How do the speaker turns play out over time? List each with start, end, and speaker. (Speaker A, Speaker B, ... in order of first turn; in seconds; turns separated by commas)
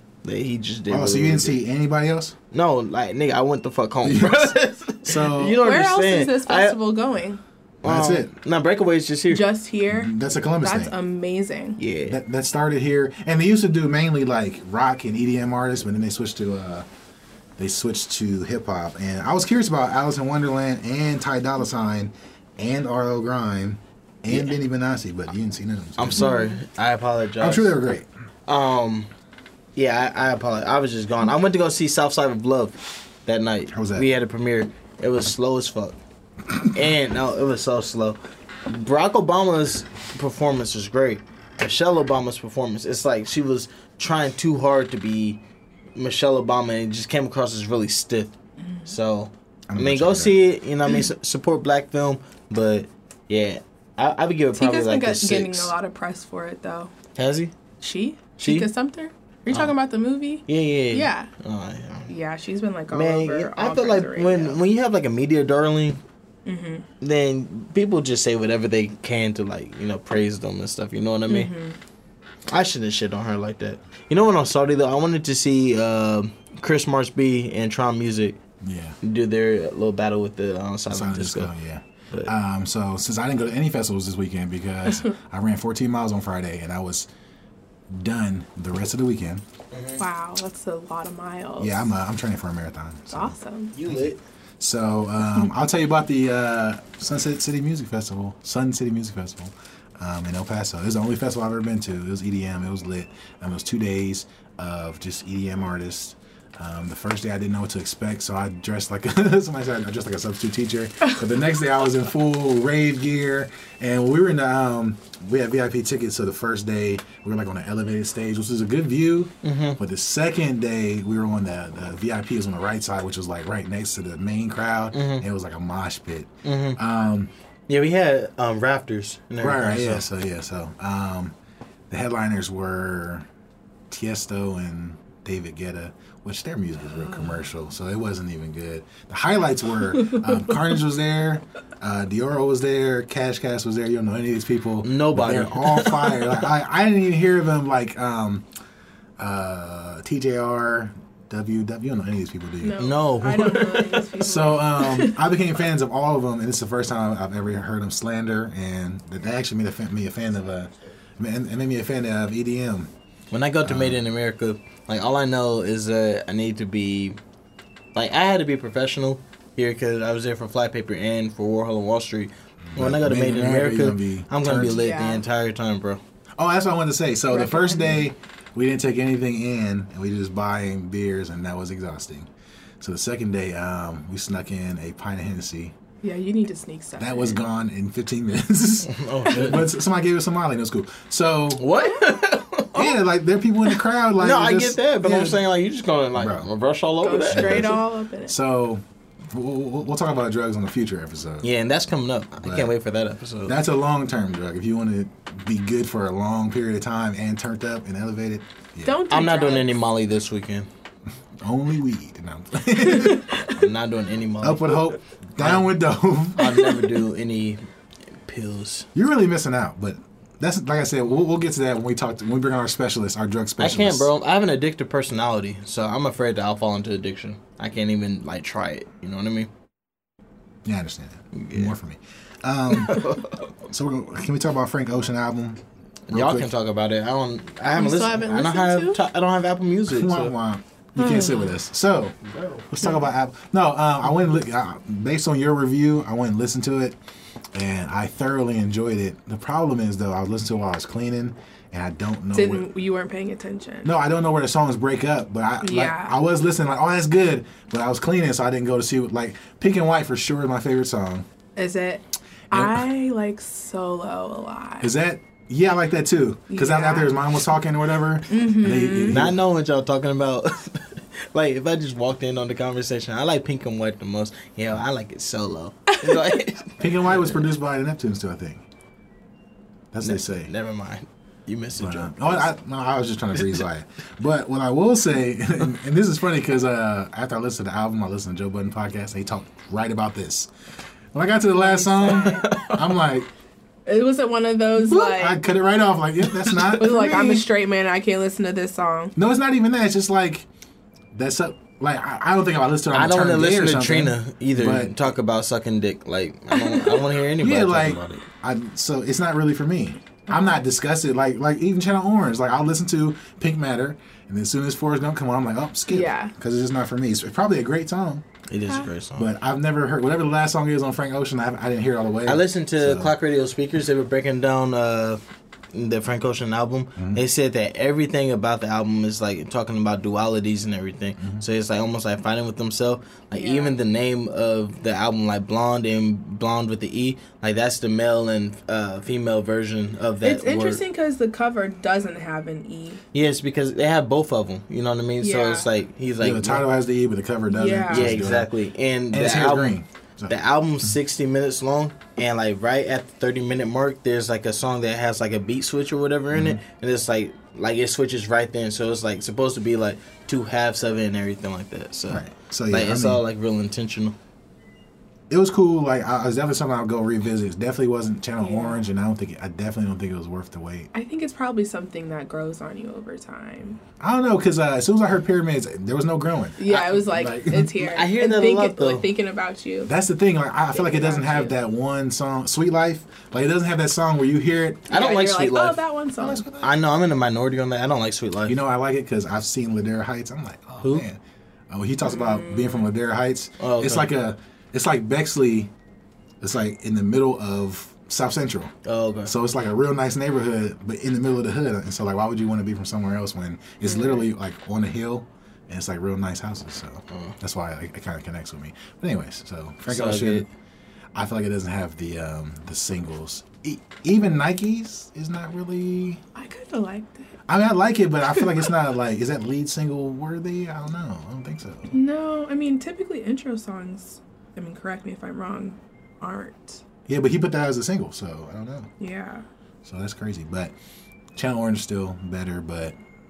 Speaker A: 0.2-1.6, Speaker B: 0.9-2.4, Speaker A: 2.5-6.8, Speaker B: 4.0-5.6, Speaker C: 5.6-7.4, Speaker A: 7.8-9.4, Speaker B: 7.8-8.3, Speaker C: 9.3-11.8, Speaker B: 9.9-10.9, Speaker A: 11.8-12.2, Speaker B: 12.1-16.9, Speaker B: 17.6-26.3, Speaker A: 24.3-24.5, Speaker A: 26.0-27.8, Speaker C: 26.2-26.6, Speaker B: 27.4-28.1, Speaker A: 28.5-29.1, Speaker A: 29.8-36.0, Speaker B: 33.7-34.1, Speaker A: 36.7-45.4, Speaker A: 46.0-48.3, Speaker A: 48.9-55.7, Speaker B: 49.7-50.5, Speaker C: 54.5-56.9, Speaker A: 57.2-57.5, Speaker C: 57.8-61.3, Speaker A: 58.4-58.7, Speaker A: 60.5-62.1, Speaker C: 62.1-64.6, Speaker A: 62.9-66.0, Speaker C: 66.5-66.9, Speaker A: 67.0-71.5, Speaker C: 71.3-71.8, Speaker A: 72.5-78.4, Speaker B: 78.6-79.0, Speaker A: 79.0-81.5, Speaker B: 80.9-87.1, Speaker B: 87.9-89.4, Speaker A: 89.7-90.0, Speaker C: 90.0-91.8, Speaker B: 91.6-127.3, Speaker C: 93.1-93.7, Speaker A: 93.7-94.2, Speaker A: 119.4-119.8, Speaker A: 124.9-125.2, Speaker A: 126.4-126.8, Speaker A: 127.7-130.1, Speaker B: 129.4-131.3, Speaker B: 131.9-133.3, Speaker B: 133.9-148.4, Speaker C: 140.0-140.5, Speaker A: 144.8-146.4, Speaker B: 149.2-152.8, Speaker C: 152.6-155.2, Speaker A: 152.8-154.1, Speaker B: 154.2-162.9, Speaker A: 163.3-167.2, Speaker B: 163.6-164.0, Speaker A: 167.9-176.0, Speaker B: 172.7-174.8, Speaker C: 174.5-175.2, Speaker B: 176.4-182.3, Speaker C: 177.3-178.1, Speaker B: 182.8-185.8, Speaker C: 186.0-187.4, Speaker B: 187.0-191.7, Speaker A: 188.8-189.7, Speaker A: 191.6-193.0, Speaker B: 192.7-195.4, Speaker A: 194.2-197.8, Speaker B: 196.2-196.5, Speaker C: 197.0-198.3, Speaker B: 197.3-201.5, Speaker A: 201.4-203.6, Speaker B: 202.4-202.7, Speaker B: 203.5-209.0, Speaker C: 208.8-209.8, Speaker A: 209.1-210.7, Speaker B: 211.4-213.4, Speaker C: 212.8-213.6, Speaker A: 213.5-214.8, Speaker B: 214.4-216.5, Speaker A: 215.4-215.7, Speaker A: 216.4-217.7, Speaker C: 216.7-216.9, Speaker A: 218.2-218.9, Speaker B: 218.9-224.1, Speaker A: 223.6-229.5, Speaker B: 230.7-235.6, Speaker A: 231.3-231.8, Speaker A: 232.7-233.4, Speaker A: 236.1-240.3, Speaker B: 236.1-236.5, Speaker C: 237.7-239.0, Speaker B: 239.9-242.2, Speaker C: 241.0-241.6, Speaker A: 242.3-242.7, Speaker B: 242.7-247.0, Speaker B: 247.5-252.7, Speaker C: 252.3-253.9, Speaker B: 253.8-261.3, Speaker C: 255.6-256.1, Speaker C: 261.6-264.9, Speaker B: 262.5-262.9, Speaker B: 264.8-269.4, Speaker C: 266.5-267.4, Speaker C: 268.3-269.3, Speaker A: 269.1-277.4, Speaker C: 276.0-276.4, Speaker B: 276.8-278.6, Speaker B: 279.9-280.5, Speaker A: 280.0-282.6, Speaker B: 281.8-290.5, Speaker A: 283.4-283.6, Speaker B: 291.1-293.3, Speaker C: 291.5-292.7, Speaker A: 292.1-292.9, Speaker C: 293.9-295.4, Speaker B: 294.8-297.5, Speaker C: 296.6-299.1, Speaker B: 299.2-300.5, Speaker B: 301.1-304.9, Speaker A: 302.9-308.2, Speaker C: 306.6-307.0, Speaker B: 307.4-318.2, Speaker C: 315.9-316.3, Speaker A: 318.5-319.3, Speaker B: 319.2-323.1, Speaker A: 322.3-325.2, Speaker A: 325.7-340.8, Speaker B: 327.0-327.2, Speaker B: 331.2-331.4, Speaker C: 333.4-333.8, Speaker C: 340.2-343.0, Speaker A: 343.1-346.7, Speaker C: 345.2-345.7, Speaker B: 346.2-348.5, Speaker C: 347.5-348.2, Speaker A: 347.9-349.7, Speaker B: 349.1-350.9, Speaker A: 350.3-364.2, Speaker B: 356.3-356.6, Speaker B: 362.1-363.2, Speaker B: 365.3-370.9, Speaker C: 368.4-368.8, Speaker C: 370.9-373.8, Speaker B: 374.0-377.8, Speaker C: 376.6-379.9, Speaker A: 377.8-379.1, Speaker B: 379.9-385.0, Speaker C: 380.7-381.5, Speaker A: 384.9-385.8, Speaker C: 384.9-386.4, Speaker B: 386.2-386.7, Speaker A: 386.6-388.6, Speaker B: 388.5-395.7, Speaker C: 392.0-392.9, Speaker A: 393.6-394.1, Speaker B: 396.4-398.7, Speaker A: 398.9-399.3, Speaker B: 399.2-410.5, Speaker C: 403.9-404.2, Speaker A: 407.1-407.4, Speaker A: 409.9-410.5, Speaker B: 411.1-416.2, Speaker C: 416.4-417.3, Speaker B: 417.5-421.9, Speaker C: 421.9-426.8, Speaker B: 427.1-428.9, Speaker C: 429.0-429.4, Speaker B: 429.8-430.7, Speaker B: 431.4-432.9